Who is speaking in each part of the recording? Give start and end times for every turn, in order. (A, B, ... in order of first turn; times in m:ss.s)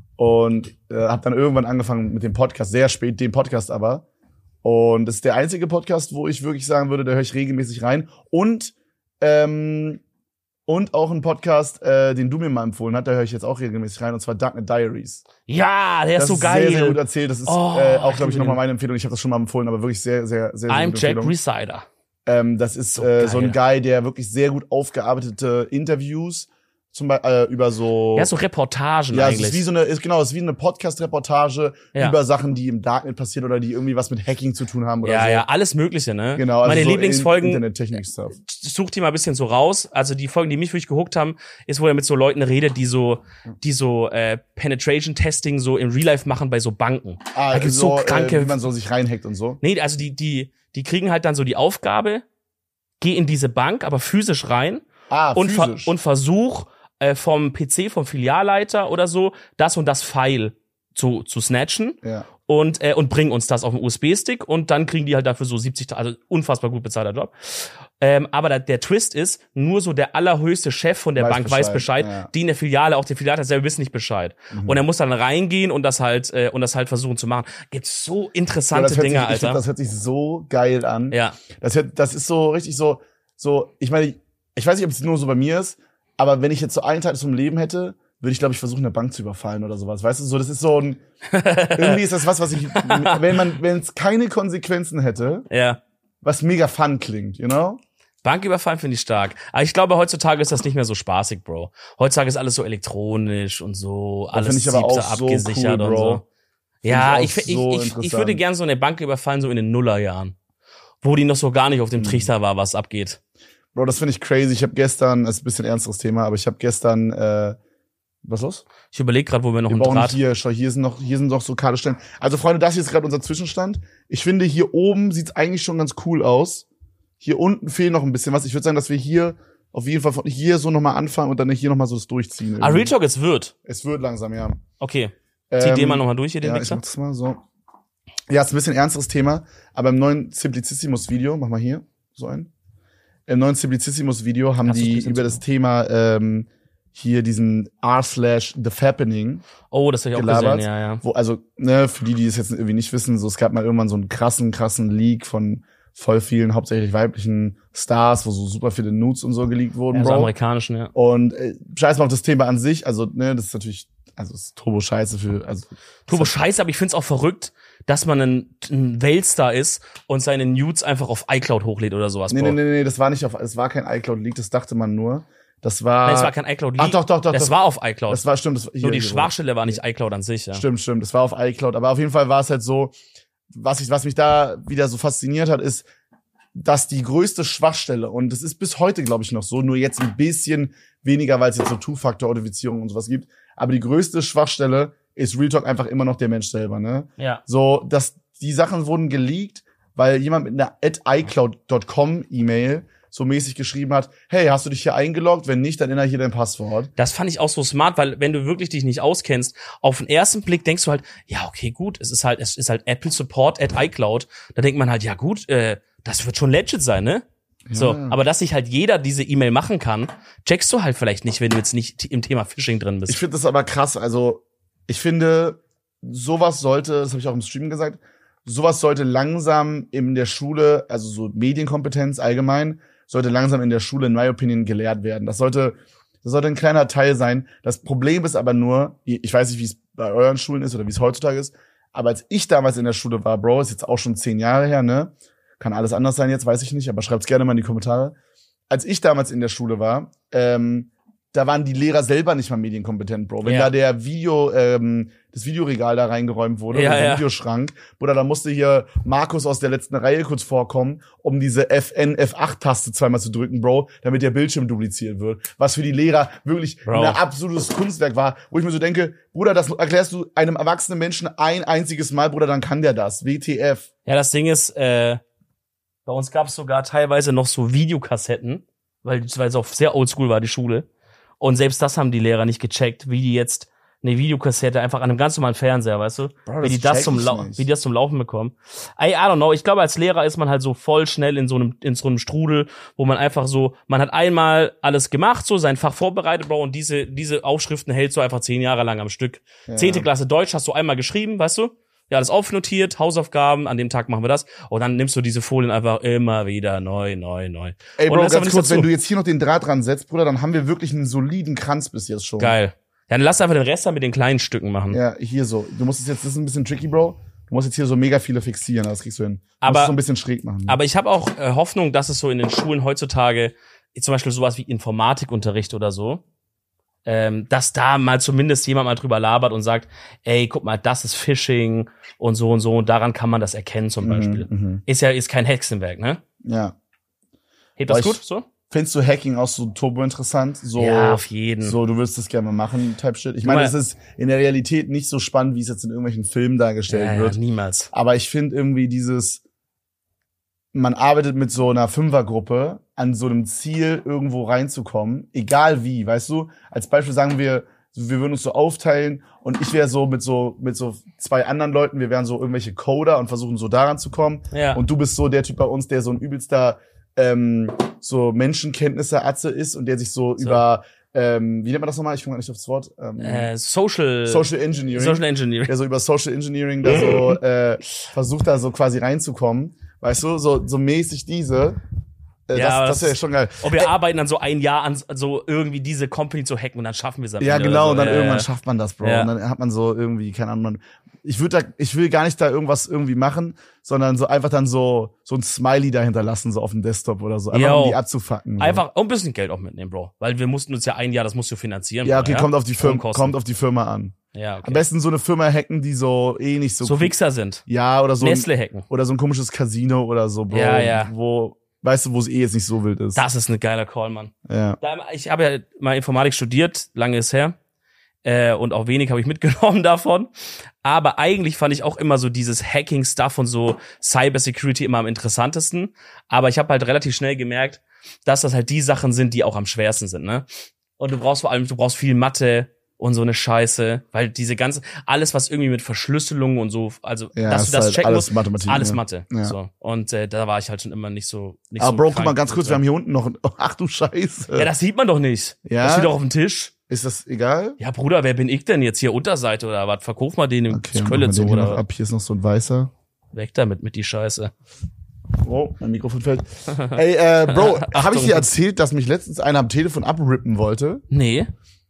0:00.2-0:04.0 A
0:04.6-0:10.0 A
0:10.7-0:15.2 A
0:15.5-0:18.6 B
0:16.2-0:21.3 A
0:20.7-0:21.8 B
0:22.2-0:28.3 A
0:23.0-0:23.6 B
0:28.2-0:29.7 B
0:29.1-0:35.4 A
0:35.0-0:37.7 B
0:36.4-0:38.4 A
0:38.4-0:48.6 B
0:47.3-0:49.6 A
0:49.6-0:52.2 B
0:53.0-0:54.8 B
0:55.1-0:55.9 A
0:55.3-1:19.6 B
1:02.0-1:02.3 A
1:11.2-1:12.3 A
1:14.5-1:14.8 A
1:18.7-1:31.0 A
1:21.1-1:21.4 B
1:31.3-1:32.0 B
1:31.7-1:35.5 A
1:32.7-1:33.4 B
1:35.5-1:35.8 B
1:36.2-1:37.8 A
1:38.2-1:46.2 B
1:44.3-1:46.2 A
1:46.8-1:50.3 B
1:46.8-1:48.4 A
1:51.0-1:53.2 B
1:52.0-1:52.3 A
1:53.7-1:57.6 A
1:58.2-1:58.6 A
1:58.9-2:00.2 B
1:59.7-2:06.6 A
2:07.2-2:12.9 A
2:12.6-2:13.5 B
2:13.6-2:14.6 A
2:14.8-2:16.8 B
2:15.5-2:17.4 A
2:18.3-2:22.5 A
2:23.3-2:29.4 A
2:24.6-2:25.4 B
2:29.7-2:31.0 B
2:30.1-2:40.3 A
2:39.9-2:40.9 B
2:40.9-2:46.3 A
2:46.1-2:52.6 B
2:52.3-2:57.5 A
2:56.0-2:58.2 B
2:58.1-2:59.3 A
2:58.8-3:00.6 B
3:00.5-3:02.9 A
3:03.5-3:05.9 A
3:06.5-3:26.9 A
3:27.0-3:43.2 B
3:37.7-3:38.2 A
3:43.1-4:08.1 A
4:08.7-4:33.9 A
4:13.4-4:13.7 B
4:16.7-4:17.2 B
4:26.8-4:27.2 B
4:34.0-4:35.2 B
4:36.0-4:40.9 B
4:41.4-5:08.9 B
4:46.4-4:47.6 A
4:59.7-5:00.1 A
5:08.0-5:12.6 A
5:12.4-5:15.0 B
5:14.9-5:20.8 A
5:19.6-5:20.0 B
5:20.7-5:26.2 B
5:27.0-5:36.2 B
5:34.0-5:34.8 A
5:36.4-5:36.7 A
5:37.8-5:38.5 B
5:37.9-5:47.4 A
5:40.8-5:41.8 B
5:43.4-5:43.7 B
5:46.9-5:47.9 B
5:47.9-5:49.4 A
5:50.7-6:13.5 A
6:04.5-6:04.8 B
6:13.2-6:15.7 B
6:14.2-6:21.8 A
6:16.9-6:17.2 B
6:22.5-6:23.9 A
6:22.5-6:28.5 B
6:27.4-6:38.8 A
6:29.0-6:29.3 B
6:37.5-6:38.0 B
6:38.6-6:43.3 B
6:42.0-6:47.1 A
6:44.3-6:44.8 B
6:46.8-6:47.6 B
6:47.7-6:53.2 A
6:48.2-6:48.8 B
6:50.5-6:51.1 B
6:53.1-6:57.6 B
6:54.5-6:54.8 A
6:58.2-7:00.3 B
7:00.8-7:10.4 B
7:11.0-7:22.8 B
7:17.3-7:19.6 A
7:21.8-7:24.7 A
7:24.5-7:26.7 B
7:25.6-7:26.1 A
7:26.9-7:27.8 A
7:27.8-7:31.8 B
7:30.7-7:32.9 A
7:33.3-7:34.5 B
7:35.4-7:41.0 A
7:37.5-7:38.5 B
7:41.1-7:41.5 B